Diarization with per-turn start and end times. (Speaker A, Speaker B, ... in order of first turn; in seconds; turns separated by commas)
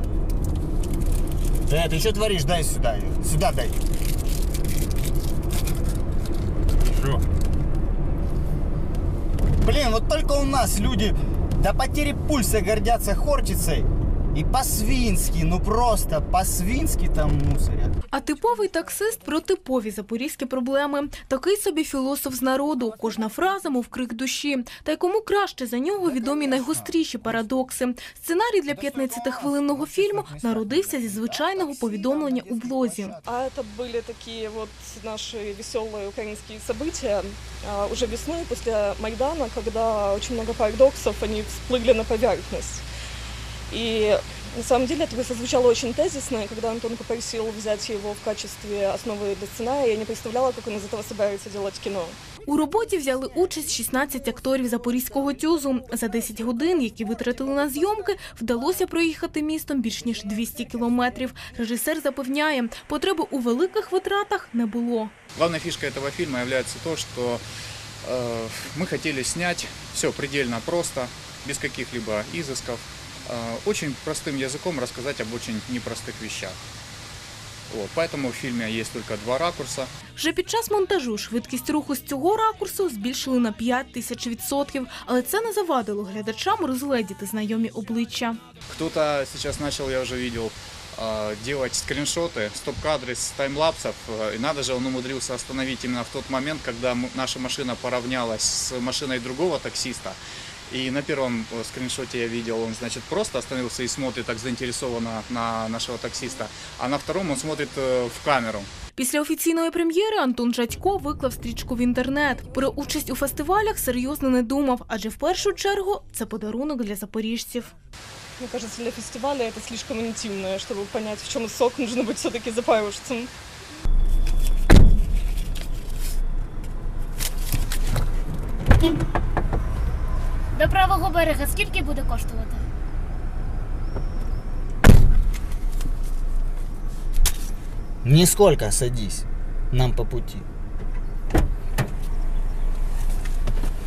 Speaker A: 1.7-3.8, Speaker A: 9.6-17.9, Speaker B: 18.1-33.1, Speaker A: 26.0-27.4, Speaker A: 28.7-33.3, Speaker C: 33.2-42.8, Speaker C: 43.7-52.2, Speaker B: 52.4-65.1, Speaker D: 65.3-67.4, Speaker D: 68.0-76.6, Speaker D: 77.7-79.9, Speaker B: 80.2-88.4, Speaker D: 88.7-100.2, Speaker D: 100.7-108.7, Speaker B: 109.0-117.7, Speaker C: 118.4-123.3, Speaker E: 130.5-132.6, Speaker A: 138.0-140.4